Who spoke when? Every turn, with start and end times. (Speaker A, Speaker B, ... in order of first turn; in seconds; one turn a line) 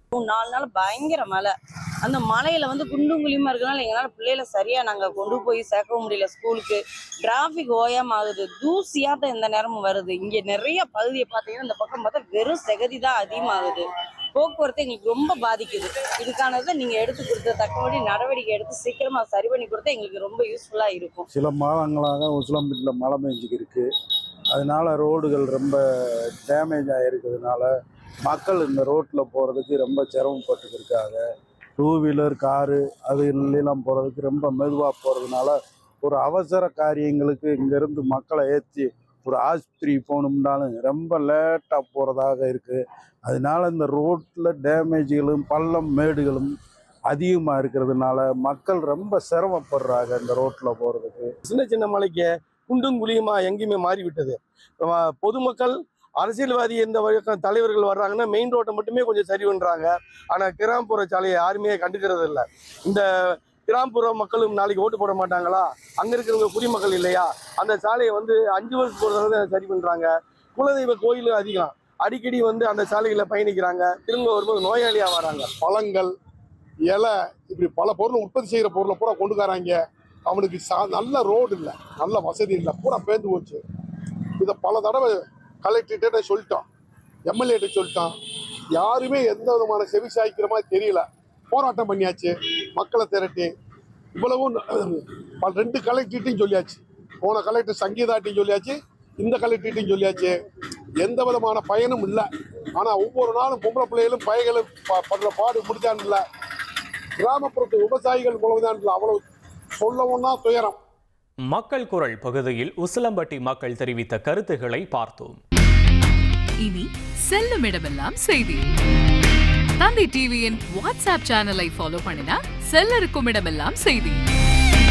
Speaker A: 0.1-21.3
Speaker B: 21.3-23.9
Speaker B: 24.5-27.7
Speaker B: 28.2-31.2
Speaker B: 31.8-46.5
Speaker B: 47.1-51.3
Speaker C: 51.4-75.5
Speaker D: 75.5-76.1
Speaker D: 76.9-83.6
Speaker D: 84.4-86.7
Speaker D: 87.3-88.1
Speaker D: 88.7-93.5
Speaker D: 94.1-100.3
Speaker D: 101.0-106.2
Speaker D: 107.2-109.2
Speaker D: 109.8-110.8
Speaker E: 111.5-115.4
Speaker F: 116.6-118.7
Speaker F: 119.8-124.2